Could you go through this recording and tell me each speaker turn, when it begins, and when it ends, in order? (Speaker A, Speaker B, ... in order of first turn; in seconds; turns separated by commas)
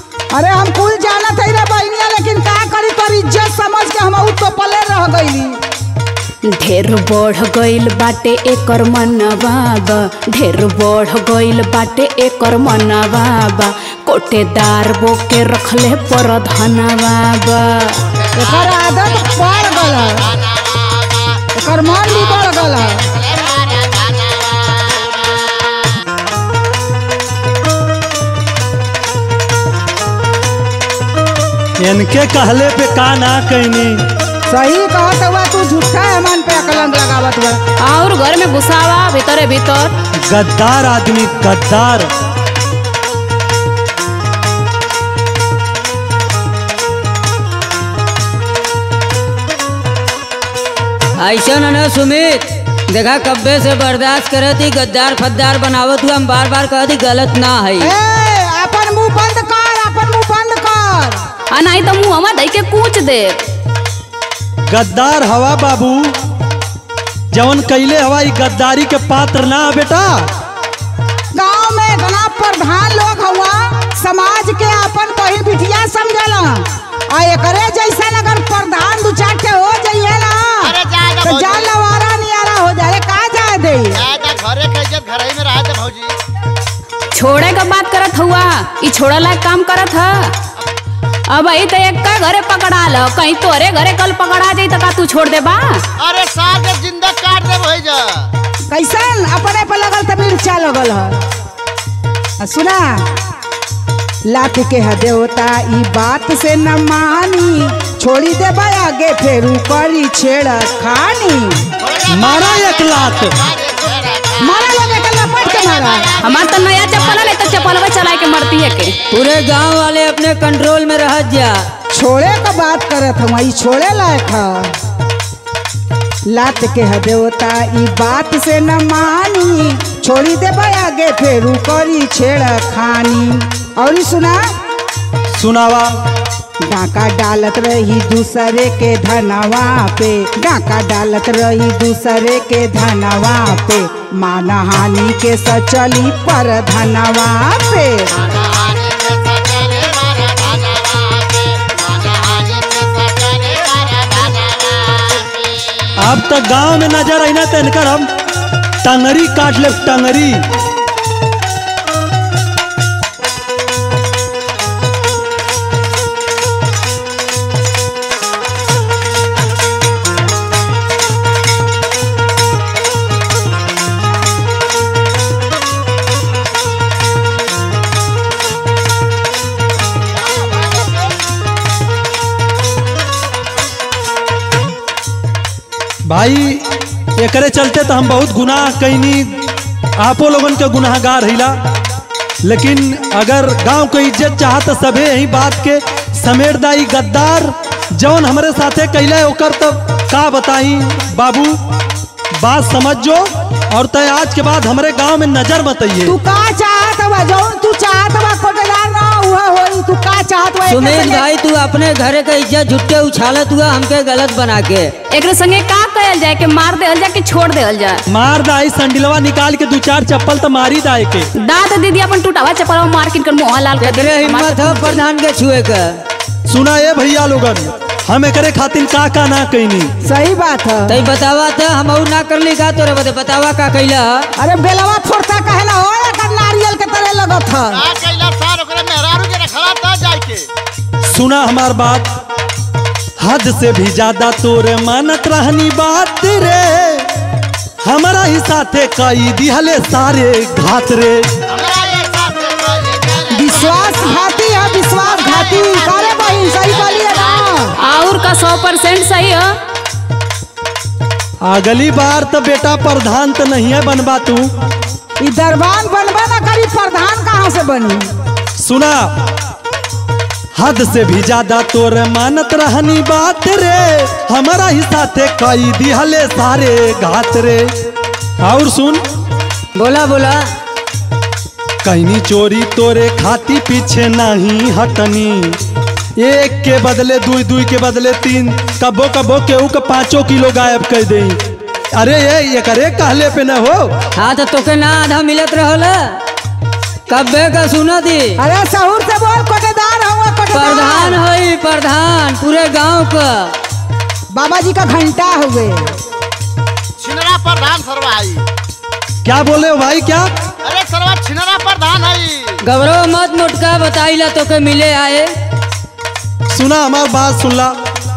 Speaker A: 0.3-5.6, Speaker B: 6.5-18.0, Speaker A: 18.3-20.4, Speaker C: 18.4-21.4, Speaker A: 21.6-23.1, Speaker C: 23.0-26.0, Speaker D: 31.8-34.0, Speaker A: 34.5-37.6, Speaker B: 37.8-39.9, Speaker D: 40.3-42.1, Speaker E: 51.2-57.9, Speaker A: 57.8-61.2, Speaker B: 61.5-63.4, Speaker D: 64.7-66.1, Speaker D: 67.3-70.2, Speaker A: 71.3-84.0, Speaker C: 80.6-81.7, Speaker C: 83.9-86.1, Speaker B: 87.1-90.3, Speaker B: 91.3-95.8, Speaker C: 96.0-98.3, Speaker A: 98.7-101.2, Speaker A: 102.4-103.1, Speaker A: 104.3-111.7, Speaker C: 111.8-117.8, Speaker D: 112.1-113.4, Speaker A: 114.4-116.2, Speaker B: 116.2-119.0, Speaker E: 119.1-121.6, Speaker A: 121.9-124.7, Speaker A: 126.3-134.4, Speaker D: 135.3-136.0, Speaker A: 136.6-148.1, Speaker C: 148.2-155.9, Speaker D: 156.0-158.1, Speaker D: 158.8-160.4, Speaker D: 186.1-186.6, Speaker D: 187.2-189.4, Speaker D: 190.0-191.5, Speaker D: 192.4-201.6, Speaker D: 202.4-206.1, Speaker A: 206.0-211.3, Speaker E: 210.6-214.9, Speaker B: 215.1-218.0, Speaker D: 218.1-221.3, Speaker B: 221.4-225.0, Speaker E: 223.8-225.9, Speaker D: 226.5-229.9, Speaker A: 230.0-231.1, Speaker E: 230.9-234.1, Speaker A: 234.4-237.8, Speaker C: 237.7-240.5, Speaker D: 241.1-242.1, Speaker D: 243.2-247.1, Speaker D: 247.8-251.2, Speaker C: 251.5-257.7, Speaker A: 253.3-257.7, Speaker B: 257.8-259.5, Speaker D: 261.4-264.5, Speaker A: 265.2-268.1, Speaker D: 268.6-269.1, Speaker D: 270.6-277.7, Speaker D: 278.4-279.0, Speaker E: 279.7-280.4, Speaker D: 281.8-285.6, Speaker D: 286.2-291.4, Speaker D: 291.9-293.9, Speaker E: 294.1-296.2, Speaker E: 297.1-298.4, Speaker A: 298.4-301.2, Speaker E: 300.5-303.5, Speaker A: 304.3-305.9, Speaker C: 307.0-308.5, Speaker D: 309.2-310.3, Speaker C: 310.6-312.6, Speaker E: 312.6-315.3, Speaker D: 316.5-317.7